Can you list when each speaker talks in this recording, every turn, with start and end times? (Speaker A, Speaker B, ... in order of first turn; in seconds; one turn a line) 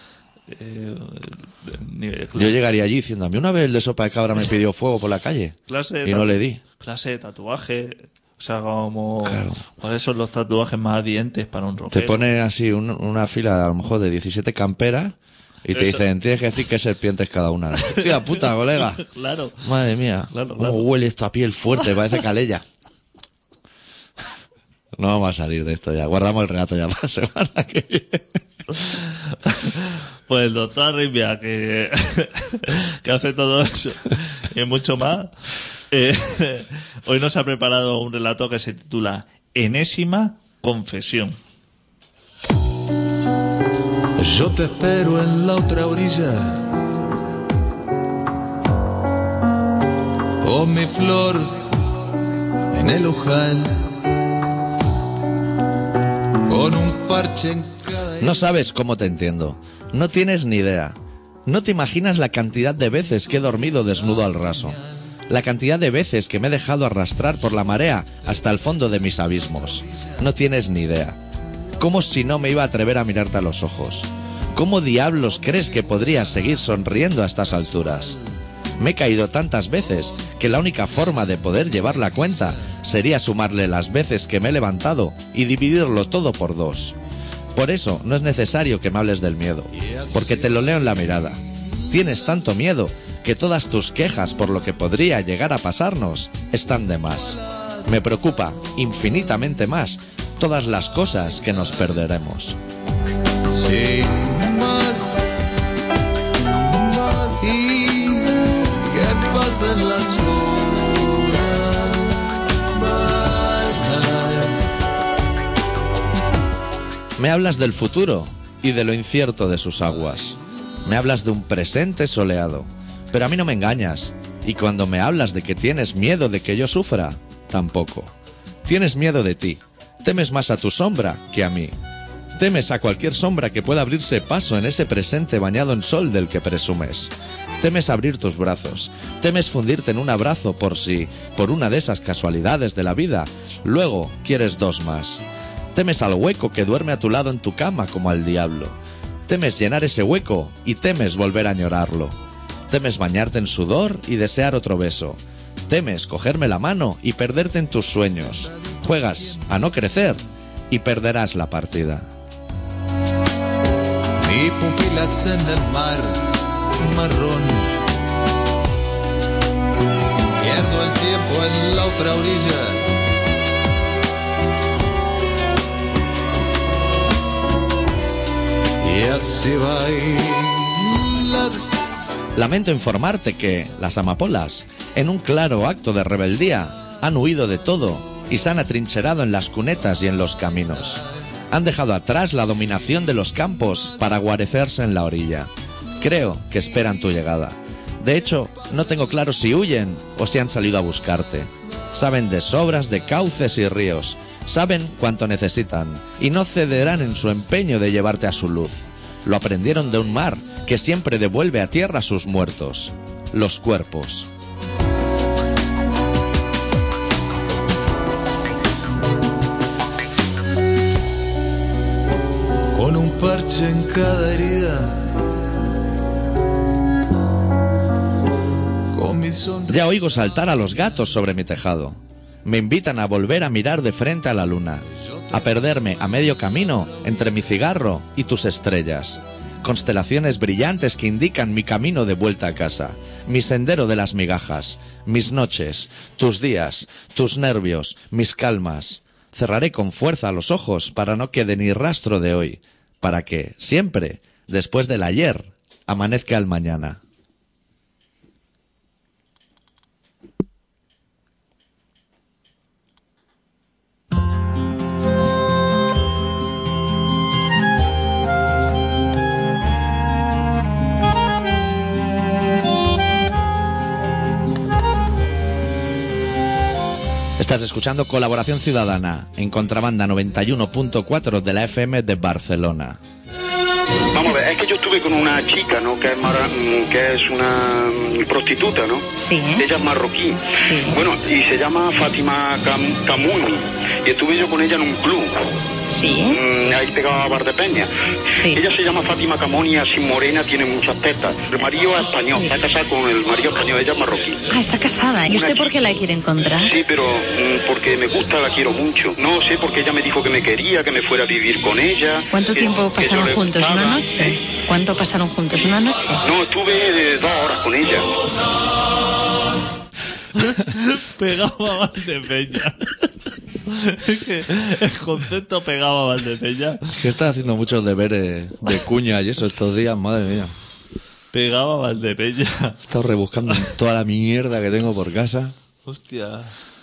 Speaker A: 0.5-2.6
Speaker B: 2.4-6.6
Speaker A: 5.7-12.3
Speaker B: 9.2-9.6
Speaker B: 11.9-19.0
Speaker A: 15.7-16.1
Speaker A: 17.8-19.6
Speaker B: 19.6-22.6
Speaker A: 20.3-20.9
Speaker B: 24.9-28.4
Speaker A: 28.7-41.4
Speaker C: 44.2-46.7
Speaker C: 50.4-51.6
Speaker C: 52.7-53.9
Speaker C: 56.5-58.4
Speaker B: 58.2-71.2
Speaker B: 71.8-78.2
Speaker B: 78.8-87.0
Speaker B: 87.5-102.6
Speaker C: 89.7-90.5
Speaker C: 103.5-105.3
Speaker C: 106.7-114.5
Speaker B: 117.2-128.1
Speaker B: 128.7-131.8
Speaker B: 132.4-145.2
Speaker B: 145.7-152.2
Speaker B: 152.7-162.1
Speaker C: 164.2-167.8
Speaker C: 170.4-172.9
Speaker C: 178.8-181.6
Speaker B: 182.4-214.3
Speaker C: 222.7-225.3
Speaker C: 228.9-229.8
Speaker B: 229.7-257.0
Speaker B: 277.4-283.0
Speaker D: 284.1-295.5
Speaker E: 289.2-289.6
Speaker E: 290.7-291.0
Speaker E: 295.9-296.4
Speaker D: 296.3-304.5
Speaker E: 304.5-306.7
Speaker D: 305.3-306.0
Speaker D: 306.6-314.4
Speaker E: 312.3-316.2
Speaker D: 316.2-318.1
Speaker A: 320.4-322.9
Speaker A: 323.7-326.9
Speaker B: 326.9-330.5
Speaker A: 331.3-332.8
Speaker B: 332.8-335.6
Speaker A: 335.9-336.5